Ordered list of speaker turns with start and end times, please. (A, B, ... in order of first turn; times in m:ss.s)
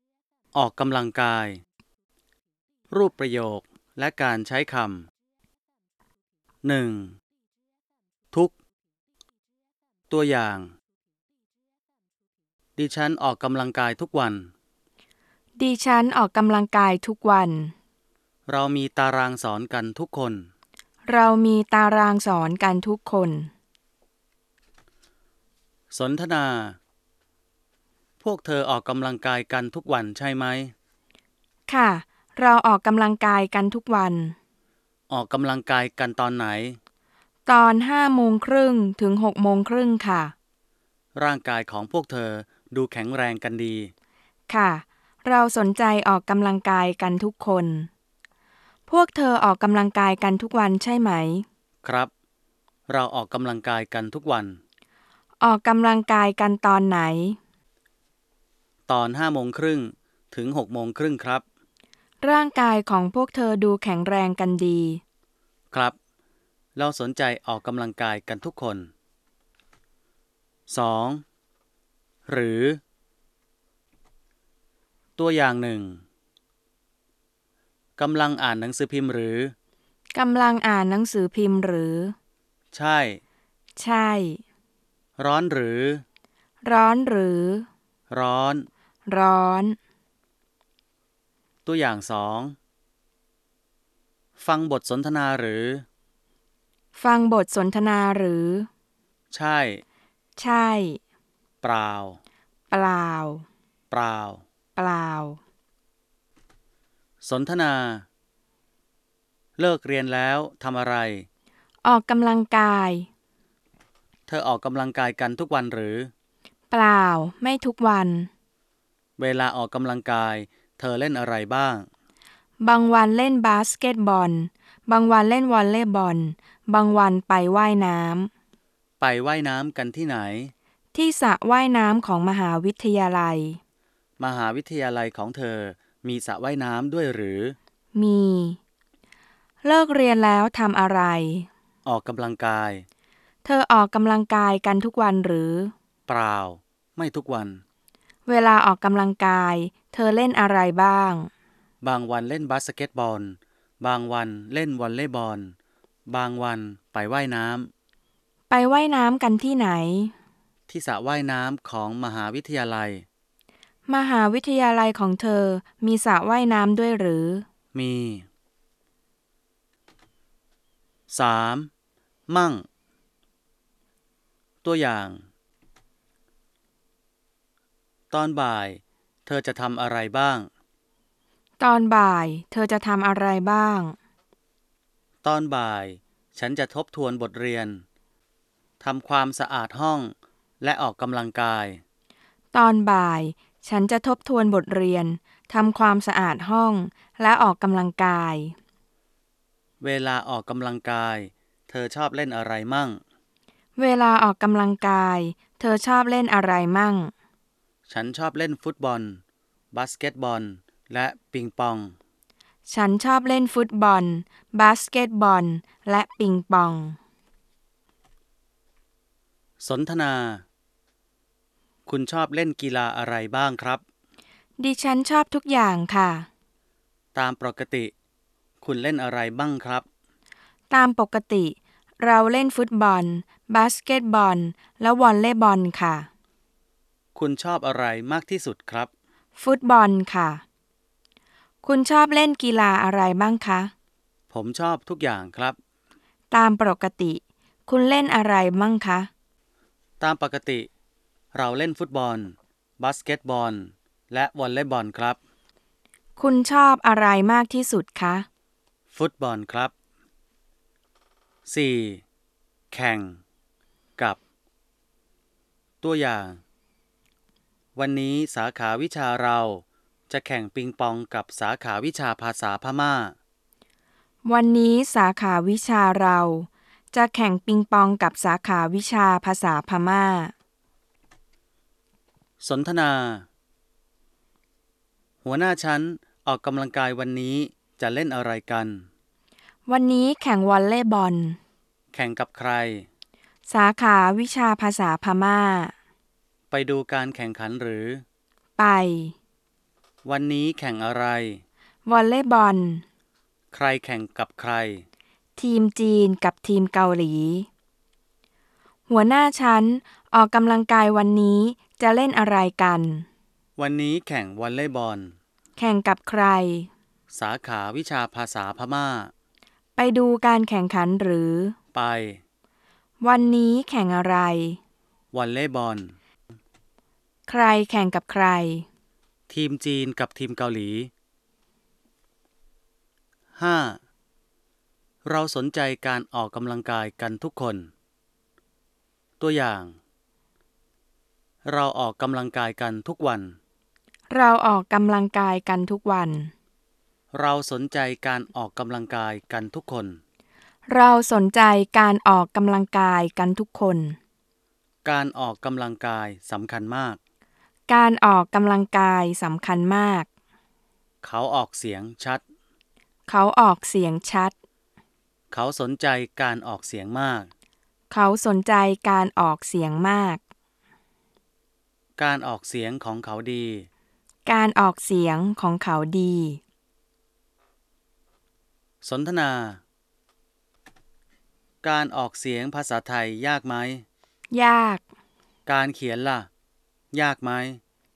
0:00.5-0:01.6 A
0:02.9-0:05.1 A
0:06.6-0:07.2 A
0:10.1-0:10.7 A
0:12.8-0:14.5 A
0:15.6-0:17.7 B
0:18.5-0:20.5 A
0:21.0-0:23.5 B
0:25.9-0:26.8 A
0:28.2-0:30.7 A
0:31.7-0:34.3 B
0:35.1-0:36.8 A
0:37.4-0:40.3 B
0:41.1-0:43.9 A
0:44.5-0:47.9 B
0:48.9-0:51.4 B
0:51.8-0:52.1 A
0:52.9-0:54.6 A
0:55.4-0:57.4 B
0:58.9-1:01.4 A
1:02.2-1:05.0 B
1:06.8-1:08.9 A
1:10.7-1:11.2 A
1:12.3-1:12.8 A
1:15.2-1:16.0 A
1:18.0-1:19.5 A
1:20.1-1:22.1 B
1:22.7-1:23.2 A
1:23.8-1:24.4 B
1:25.2-1:26.0 A
1:26.6-1:27.6 B
1:28.1-1:28.7 A
1:29.1-1:29.8 B
1:31.6-1:32.6 A
1:34.4-1:35.8 A
1:36.9-1:38.7 B
1:39.3-1:39.8 A
1:40.4-1:41.0 B
1:41.6-1:42.2 A
1:42.7-1:43.4 B
1:43.9-1:44.4 A
1:44.8-1:45.4 B
1:47.2-1:48.0 A
1:49.6-1:51.3 A
1:51.8-1:53.1 B
1:54.3-1:56.1 A
1:56.7-1:58.3 B
1:59.2-2:01.9 A
2:02.6-2:08.3 B
2:09.0-2:10.5 A
2:10.9-2:13.6 B
2:14.2-2:17.6 A
2:17.9-2:18.6 B
2:19.6-2:21.5 B
2:21.8-2:22.8 A
2:23.4-2:25.7 B
2:26.1-2:27.6 A
2:28.2-2:31.3 B
2:31.8-2:35.5 A
2:36.1-2:37.7 A
2:38.5-2:40.1 B
2:40.7-2:43.0 A
2:43.9-2:47.4 B
2:47.7-2:48.2 A
2:51.1-2:51.7 A
2:52.3-2:52.6 A
2:54.6-2:55.2 A
2:58.1-3:00.5 A
3:01.6-3:03.9 B
3:05.2-3:07.8 A
3:08.8-3:11.8 A
3:12.5-3:18.5 B
3:19.8-3:23.0 A
3:23.8-3:27.1 B
3:27.9-3:29.2 A
3:29.7-3:31.9 A
3:32.7-3:37.0 B
3:39.6-3:40.4 A
3:41.8-3:43.8 A
3:44.6-3:46.3 B
3:47.1-3:47.9 A
3:48.6-3:49.8 A
3:50.7-3:56.1 B
3:57.1-3:58.9 A
3:59.4-4:00.4 B
4:01.6-4:03.7 B
4:04.3-4:05.6 A
4:06.3-4:09.1 B
4:10.0-4:10.7 A
4:11.3-4:15.2 A
4:16.2-4:18.2 B
4:18.9-4:19.7 A
4:21.5-4:22.0 A
4:22.7-4:23.2 A
4:25.8-4:26.4 A
4:27.8-4:33.1 A
4:34.2-4:40.3 B
4:42.4-4:43.2 A
4:45.2-4:48.8 A
4:49.7-4:51.4 B
4:51.9-4:52.8 A
4:53.5-4:55.7 B
4:56.5-4:58.0 A
4:58.6-4:59.1 B
5:00.0-5:01.4 A
5:01.8-5:02.8 B
5:03.5-5:04.8 A
5:05.4-5:07.5 B
5:08.9-5:13.0 B
5:13.6-5:15.1 A
5:15.6-5:16.7 B
5:17.1-5:19.1 A
5:19.8-5:21.5 B
5:21.7-5:22.2 A
5:23.0-5:24.6 B
5:25.1-5:26.0 A
5:27.3-5:28.6 B
5:29.3-5:30.9 A
5:33.4-5:33.8 A
5:35.0-5:37.7 A
5:39.2-5:39.7 A
5:41.4-5:43.4 A
5:44.1-5:46.3 B
5:47.1-5:50.0 A
5:50.7-5:54.0 B
5:54.8-5:57.0 A
5:57.7-6:00.1 B
6:01.0-6:02.2 A
6:03.1-6:04.3 B
6:05.3-6:07.3 A
6:07.9-6:10.2 B
6:12.0-6:13.7 A
6:14.2-6:16.4 B
6:18.8-6:19.6 A
6:21.6-6:23.8 A
6:24.3-6:24.8 B
6:25.5-6:26.3 A
6:26.9-6:27.6 A